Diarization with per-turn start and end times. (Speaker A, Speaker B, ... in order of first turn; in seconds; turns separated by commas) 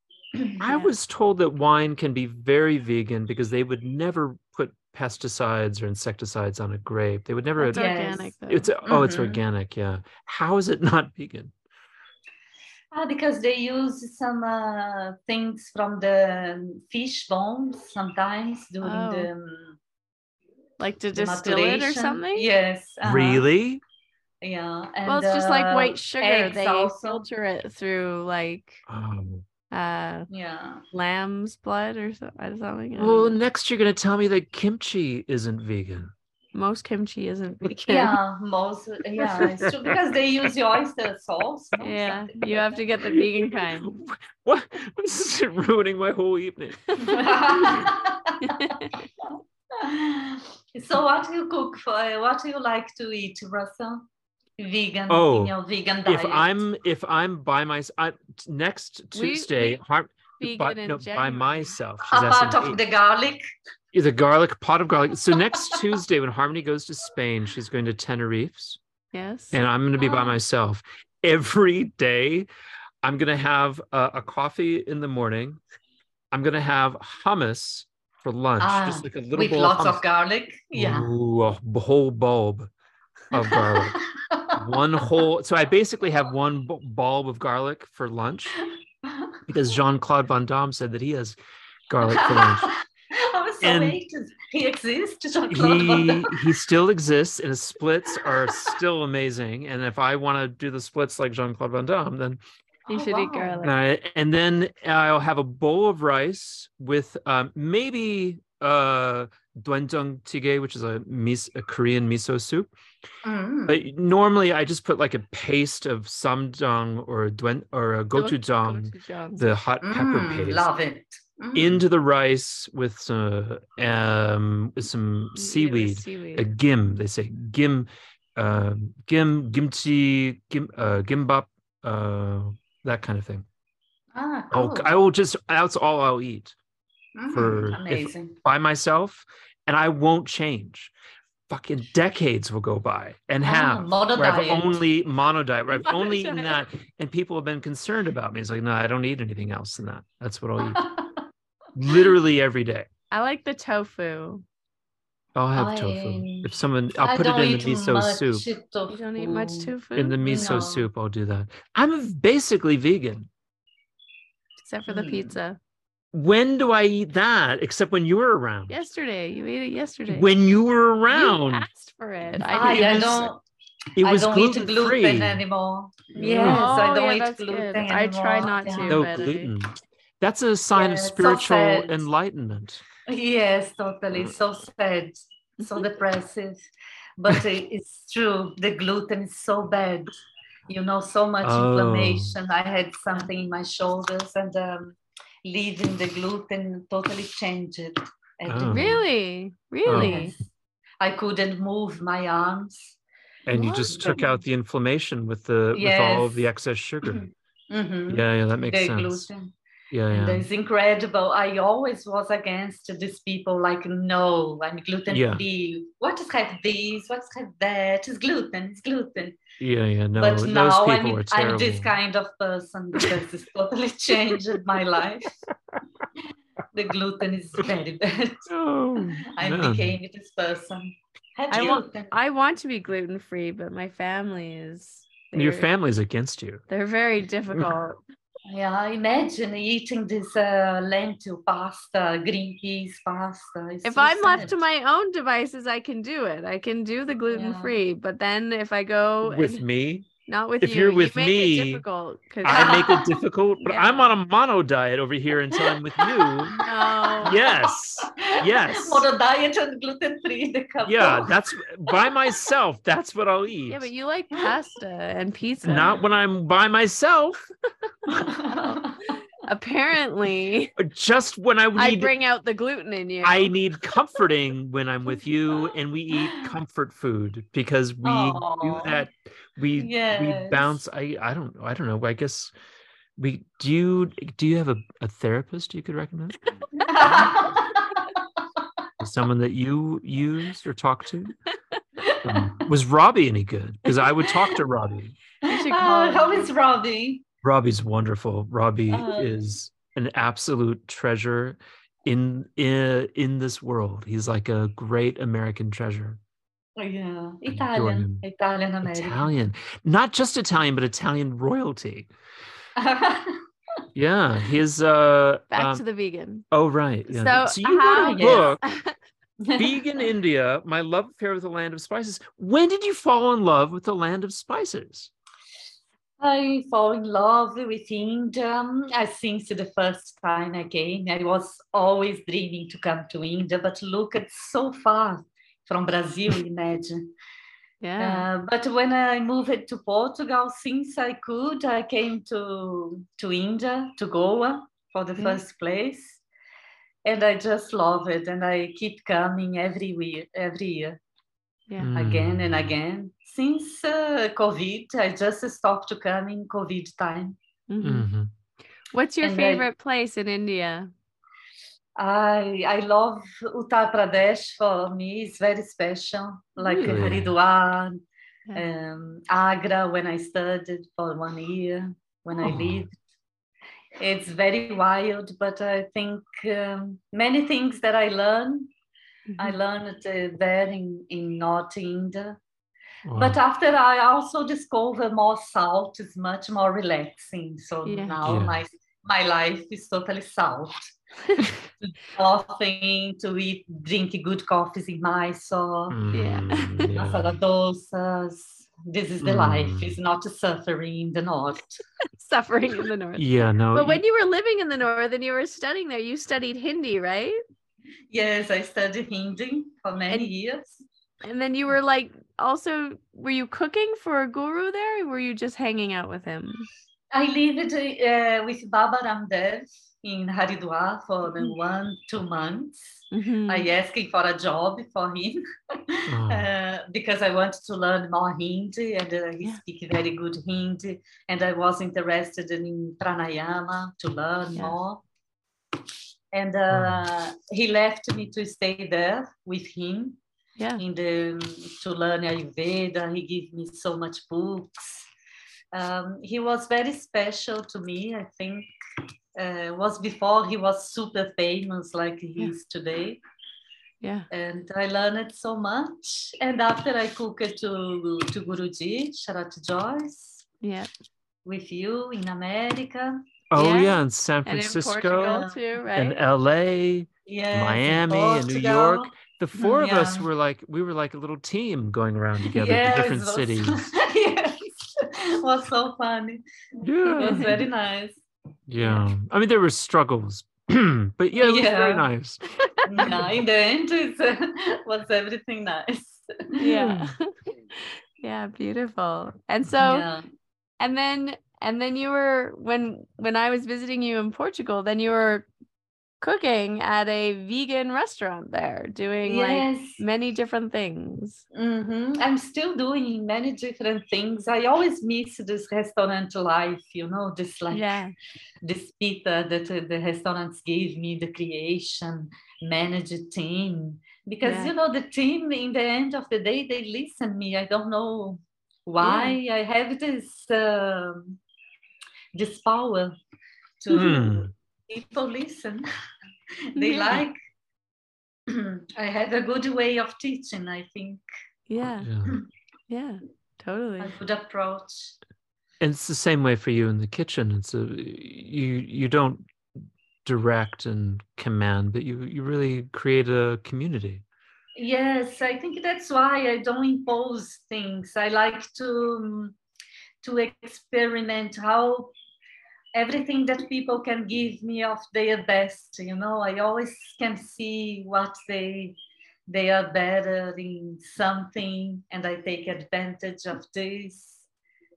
Speaker A: 0.3-0.6, Speaker B: 0.6-7.9, Speaker C: 7.6-8.7, Speaker A: 7.7-8.3, Speaker B: 8.5-11.5, Speaker A: 8.9-9.4, Speaker A: 12.9-19.8, Speaker C: 18.8-19.3, Speaker C: 20.8-22.5, Speaker A: 21.1-23.4, Speaker B: 23.0-23.8, Speaker A: 24.4-27.2, Speaker C: 25.1-28.8, Speaker B: 28.9-29.4, Speaker C: 29.7-30.3, Speaker A: 30.3-30.8, Speaker C: 30.9-33.3, Speaker B: 33.0-36.1, Speaker C: 36.5-38.1, Speaker A: 37.9-42.8, Speaker B: 39.3-40.5, Speaker C: 41.8-43.9, Speaker B: 43.0-47.8, Speaker C: 47.0-47.9, Speaker A: 47.0-48.7, Speaker C: 48.4-48.9, Speaker A: 49.7-54.0, Speaker A: 54.6-56.6, Speaker B: 55.1-55.5, Speaker B: 56.0-62.8, Speaker C: 59.1-59.8, Speaker C: 60.4-61.7, Speaker A: 62.1-63.4, Speaker B: 63.9-68.8, Speaker A: 65.5-65.8, Speaker C: 69.1-69.6, Speaker B: 69.5-72.5, Speaker A: 70.0-70.3, Speaker B: 73.0-75.6, Speaker B: 76.3-80.0, Speaker A: 78.6-81.1, Speaker B: 80.7-82.7, Speaker B: 83.3-84.0, Speaker A: 83.3-84.6, Speaker B: 84.5-88.6, Speaker A: 89.0-89.4, Speaker B: 89.5-91.4, Speaker B: 91.9-92.7, Speaker A: 92.0-96.3, Speaker B: 93.6-94.0, Speaker B: 95.5-102.4, Speaker A: 98.2-98.7, Speaker C: 102.9-103.7, Speaker A: 102.9-103.7, Speaker B: 103.6-112.7, Speaker A: 113.2-113.8, Speaker B: 113.7-120.7, Speaker C: 118.1-119.4, Speaker A: 119.8-121.8, Speaker B: 121.5-133.4, Speaker C: 125.3-126.5, Speaker A: 134.1-134.9, Speaker B: 134.5-136.5, Speaker A: 137.2-138.3, Speaker B: 137.3-140.9, Speaker B: 141.5-150.8, Speaker A: 143.4-144.8, Speaker C: 145.7-146.6, Speaker A: 150.7-151.2, Speaker B: 151.8-152.9, Speaker C: 153.1-154.4, Speaker B: 155.3-158.4, Speaker A: 155.5-159.7, Speaker C: 158.9-160.6, Speaker B: 160.0-163.3, Speaker A: 160.2-160.9, Speaker C: 164.6-165.6, Speaker A: 164.9-165.3, Speaker B: 166.1-168.8, Speaker C: 168.7-170.3, Speaker B: 170.1-171.7, Speaker C: 171.1-173.2, Speaker A: 172.4-173.4, Speaker B: 172.5-173.3, Speaker B: 173.9-175.4, Speaker A: 174.0-179.2, Speaker C: 176.2-179.5, Speaker B: 176.2-176.7, Speaker B: 178.9-182.8, Speaker A: 180.7-182.0, Speaker A: 183.1-186.6, Speaker A: 187.2-190.1, Speaker A: 190.7-199.0, Speaker B: 191.4-192.3, Speaker B: 198.5-198.9, Speaker C: 198.7-200.3, Speaker B: 199.8-200.2, Speaker A: 199.8-200.5, Speaker A: 201.0-203.0, Speaker B: 203.5-207.2, Speaker A: 203.5-204.2, Speaker C: 203.5-204.4, Speaker A: 205.7-206.5, Speaker A: 207.0-209.5, Speaker B: 208.1-209.3, Speaker B: 209.9-210.4, Speaker A: 210.1-219.4, Speaker B: 215.1-215.4, Speaker B: 219.6-222.0, Speaker A: 220.2-225.4, Speaker A: 226.7-228.5, Speaker B: 228.5-229.9, Speaker A: 229.3-232.1, Speaker C: 231.5-235.7, Speaker B: 235.3-236.6, Speaker C: 236.7-238.0, Speaker A: 238.5-244.5, Speaker C: 243.8-249.6, Speaker A: 247.3-247.8, Speaker B: 249.2-250.1, Speaker C: 250.2-252.9, Speaker B: 250.6-251.8, Speaker B: 252.4-256.5, Speaker A: 252.5-253.2, Speaker C: 253.6-254.1, Speaker A: 255.5-261.3, Speaker C: 256.6-257.4, Speaker B: 257.2-259.1, Speaker B: 260.8-263.9, Speaker C: 263.7-265.9, Speaker B: 265.6-267.5, Speaker A: 268.2-269.0, Speaker C: 268.5-268.9, Speaker C: 269.4-270.7, Speaker B: 270.8-272.1, Speaker C: 271.8-273.5, Speaker B: 273.2-282.5, Speaker A: 276.2-276.5, Speaker A: 278.0-279.0, Speaker A: 279.8-280.7, Speaker B: 283.2-286.4, Speaker A: 286.7-288.2, Speaker B: 287.0-287.3, Speaker B: 289.0-291.4, Speaker A: 292.0-292.6, Speaker B: 292.2-295.2, Speaker A: 295.4-297.2, Speaker C: 295.4-296.5, Speaker B: 297.4-306.2, Speaker A: 298.9-299.5, Speaker A: 306.8-309.2, Speaker B: 307.5-308.2, Speaker B: 308.8-312.1, Speaker A: 312.8-313.4, Speaker B: 313.9-315.8, Speaker C: 315.5-316.4, Speaker B: 316.5-318.6, Speaker C: 317.1-318.9, Speaker A: 317.8-318.5, Speaker A: 319.4-319.8, Speaker B: 319.6-325.1, Speaker A: 326.2-337.1, Speaker C: 337.8-338.3, Speaker A: 338.0-346.2, Speaker A: 347.0-351.0, Speaker B: 351.8-352.7, Speaker A: 351.9-357.4, Speaker C: 357.7-358.1, Speaker B: 357.8-358.3, Speaker C: 358.9-360.9, Speaker A: 359.2-359.6, Speaker A: 362.0-368.0, Speaker C: 366.7-367.1, Speaker B: 366.7-367.3, Speaker A: 368.5-372.9, Speaker B: 372.4-372.9, Speaker A: 374.0-378.7, Speaker C: 379.3-379.6, Speaker A: 379.4-382.4, Speaker B: 383.0-383.4, Speaker A: 383.1-390.8, Speaker C: 387.9-388.2, Speaker B: 388.2-388.6, Speaker A: 391.8-396.0, Speaker B: 395.9-397.4, Speaker C: 396.1-396.9, Speaker A: 396.9-401.8, Speaker B: 399.2-400.0, Speaker C: 402.1-407.4, Speaker B: 403.2-404.0, Speaker A: 408.1-410.8, Speaker C: 411.2-416.7, Speaker A: 417.1-435.0, Speaker C: 423.1-423.7, Speaker B: 426.1-426.5, Speaker A: 436.3-440.2, Speaker B: 436.7-437.0, Speaker A: 440.8-445.1, Speaker A: 445.7-448.7, Speaker A: 449.4-453.2, Speaker C: 454.0-454.3, Speaker A: 454.3-460.4, Speaker C: 460.6-460.9, Speaker A: 461.4-463.2, Speaker B: 463.5-473.9, Speaker C: 463.6-466.2, Speaker A: 465.1-465.6, Speaker A: 467.3-470.3, Speaker A: 472.5-478.2, Speaker B: 476.8-477.7, Speaker C: 477.0-477.5, Speaker B: 478.7-482.4, Speaker C: 478.8-479.1, Speaker A: 481.4-482.1, Speaker A: 482.9-486.6, Speaker B: 483.0-483.3, Speaker C: 486.6-490.1, Speaker B: 486.6-487.1, Speaker A: 489.8-490.2, Speaker C: 490.8-495.5, Speaker C: 496.2-501.4, Speaker A: 499.2-500.0, Speaker A: 501.5-507.9, Speaker C: 507.7-508.1, Speaker A: 508.6-521.4, Speaker C: 514.4-514.7, Speaker C: 519.0-519.4, Speaker A: 522.3-523.2, Speaker A: 523.8-525.9, Speaker B: 523.9-524.5, Speaker A: 526.7-527.4, Speaker C: 526.8-527.2, Speaker A: 528.5-531.2, Speaker C: 531.7-532.1, Speaker B: 531.8-532.4, Speaker C: 532.9-534.1, Speaker A: 534.0-535.1, Speaker B: 535.8-539.5, Speaker B: 540.2-544.2, Speaker A: 544.8-549.5, Speaker A: 550.2-552.1, Speaker A: 552.9-559.0, Speaker A: 559.5-564.5